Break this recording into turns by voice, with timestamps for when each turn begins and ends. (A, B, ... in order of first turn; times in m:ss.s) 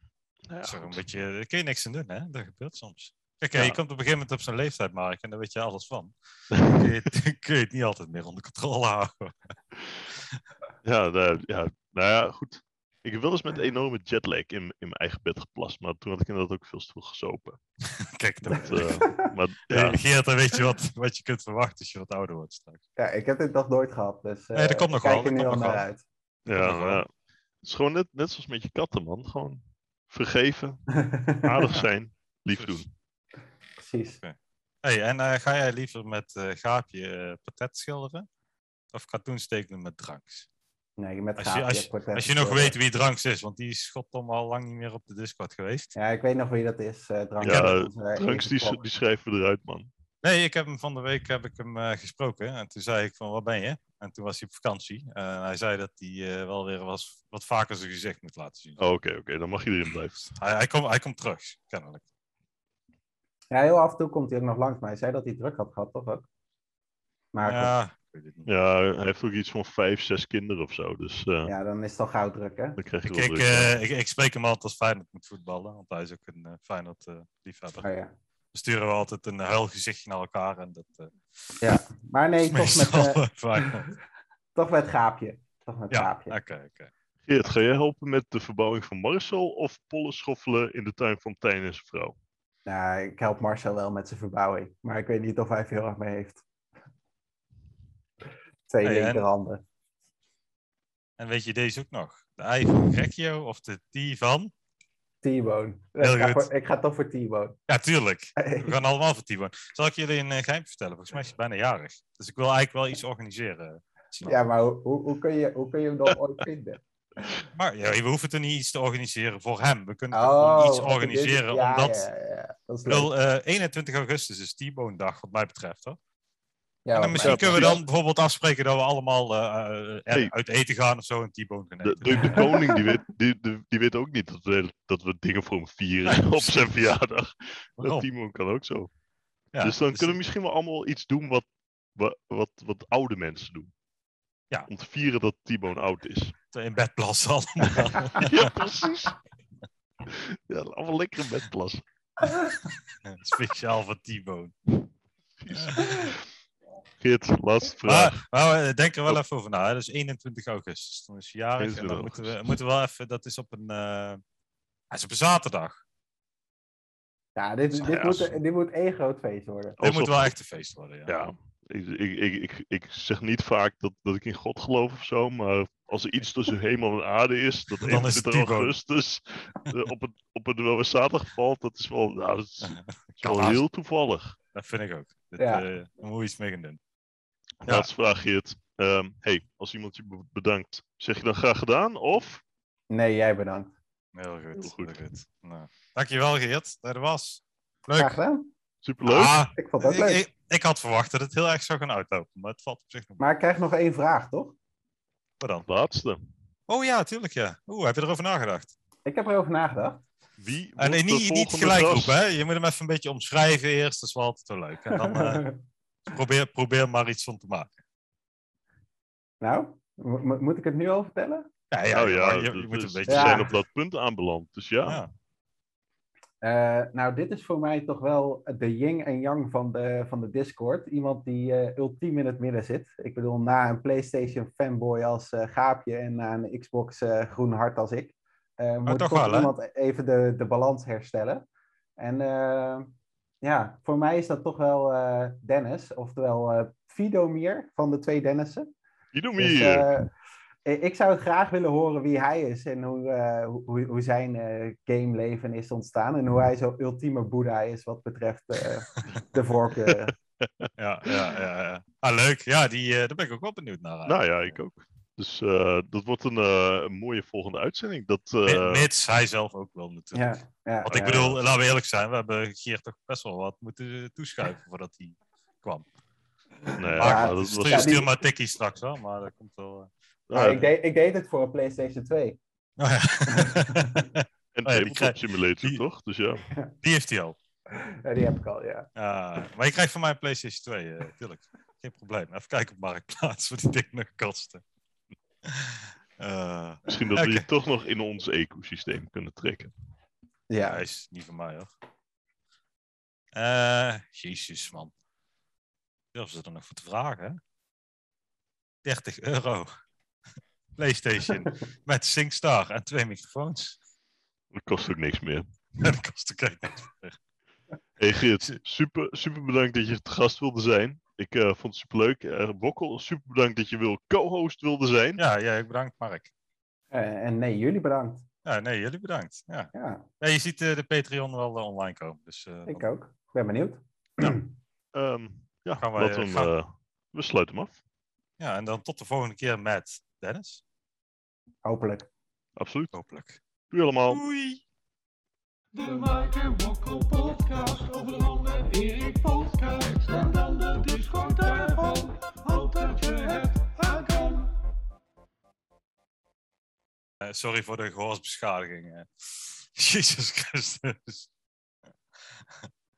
0:00.5-0:01.0 A
0:00.6-0:09.3 B
0:06.5-0:06.9 A
0:10.8-0:17.6 A
0:17.9-0:19.0 B
0:18.6-0:20.0 A
0:18.8-0:19.3 C
0:19.7-0:22.8 B
0:23.0-0:26.0 C
0:24.5-0:25.8 B
0:26.4-0:27.0 B
0:26.5-0:27.1 A
0:27.6-0:30.8 A
0:30.9-0:31.5 C
0:31.4-0:32.9 A
0:32.5-0:32.8 B
0:33.8-0:34.2 C
0:34.2-0:38.3 B
0:38.9-0:40.5 B
0:41.0-0:42.8 C
0:41.4-0:45.9 B
0:45.9-0:48.8 C
0:47.4-0:47.8 B
0:47.4-0:49.9 A
0:50.2-0:58.8 B
0:58.8-1:00.3 A
1:00.3-1:02.0 B
1:03.5-1:06.3 C
1:07.3-1:07.7 C
1:07.4-1:08.5 B
1:08.4-1:11.5 A
1:11.4-1:12.8 C
1:12.8-1:13.8 A
1:13.0-1:17.9 B
1:17.8-1:18.1 C
1:18.5-1:21.1 B
1:21.6-1:23.8 C
1:22.5-1:23.9 B
1:24.5-1:26.4 C
1:25.9-1:26.9 B
1:27.3-1:32.1 A
1:32.6-1:36.4 C
1:38.7-1:39.6 C
1:38.8-1:39.3 B
1:41.2-1:44.5 B
1:45.2-1:47.6 C
1:46.0-1:46.5 B
1:47.7-1:54.4 B
1:48.4-1:48.7 C
1:54.2-1:56.8 C
1:57.5-2:02.1 B
2:00.1-2:03.1 C
2:02.9-2:06.0 B
2:06.8-2:07.8 C
2:06.9-2:12.6 B
2:07.2-2:07.8 A
2:11.8-2:18.9 A
2:12.3-2:12.8 C
2:16.0-2:16.7 B
2:17.8-2:18.1 B
2:19.5-2:20.2 B
2:19.6-2:23.7 A
2:24.7-2:26.4 A
2:26.5-2:28.6 B
2:27.7-2:29.2 A
2:30.0-2:31.8 A
2:33.0-2:34.5 B
2:35.4-2:36.2 A
2:35.5-2:35.9 B
2:37.0-2:38.2 A
2:37.8-2:44.2 B
2:41.6-2:42.6 A
2:44.9-2:45.8 B
2:47.4-2:49.8 C
2:47.8-2:48.3 A
2:49.8-2:50.3 A
2:49.8-2:51.1 B
2:51.1-3:04.4 A
2:57.8-2:58.7 B
3:02.6-3:03.6 B
3:04.5-3:06.8 B
3:05.4-3:05.6 C
3:07.6-3:12.4 A
3:12.9-3:13.7 C
3:14.1-3:18.2 B
3:14.6-3:15.0 A
3:17.9-3:18.5 C
3:18.8-3:19.4 A
3:19.0-3:23.2 B
3:19.5-3:20.2 C
3:23.2-3:24.6 C
3:25.4-3:25.7 B
3:25.7-3:26.2 A
3:26.7-3:28.7 B
3:29.0-3:30.0 C
3:30.4-3:32.2 A
3:30.8-3:35.5 B
3:35.0-3:35.6 C
3:36.0-3:37.7 B
3:39.4-3:41.5 C
3:41.7-3:43.5 B
3:41.9-3:45.0 A
3:43.1-3:43.5 C
3:44.8-3:45.1 B
3:46.4-4:01.4 C
3:58.8-3:59.5 B
4:02.0-4:08.7 C
4:09.1-4:09.9 A
4:09.4-4:10.1 C
4:10.6-4:20.1 C
4:20.4-4:21.2 A
4:20.8-4:24.6 B
4:24.0-4:28.9 A
4:28.4-4:35.9 B
4:30.1-4:31.4 C
4:36.8-4:38.0 A
4:36.8-4:39.9 B
4:37.0-4:38.1 C
4:40.3-4:40.7 A
4:40.3-4:42.4 C
4:42.8-4:45.8 B
4:43.4-4:44.0 C
4:44.5-4:46.4 A
4:46.8-4:47.4 B
4:47.7-4:48.9 C
4:48.9-4:54.6 B
4:55.4-4:57.4 B
4:56.9-4:59.7 A
5:00.5-5:00.8 C
5:00.6-5:01.7 B
5:03.3-5:04.9 B
5:06.1-5:07.4 B
5:08.8-5:09.7 B
5:10.8-5:13.8 B
5:14.5-5:15.9 A
5:15.8-5:17.2 B
5:18.0-5:25.2 A
5:25.2-5:26.3 B
5:26.9-5:28.2 C
5:28.4-5:32.8 B
5:29.7-5:30.0 C
5:32.7-5:34.5 C
5:34.9-5:37.8 A
5:35.8-5:36.5 B
5:38.4-5:40.6 B
5:41.6-5:42.1 C
5:42.6-5:42.9 A
5:42.9-5:43.4 B
5:43.7-5:44.2 A
5:44.1-5:44.6 B
5:45.7-5:54.5 D
5:57.2-6:01.3 B
6:02.3-6:02.6 B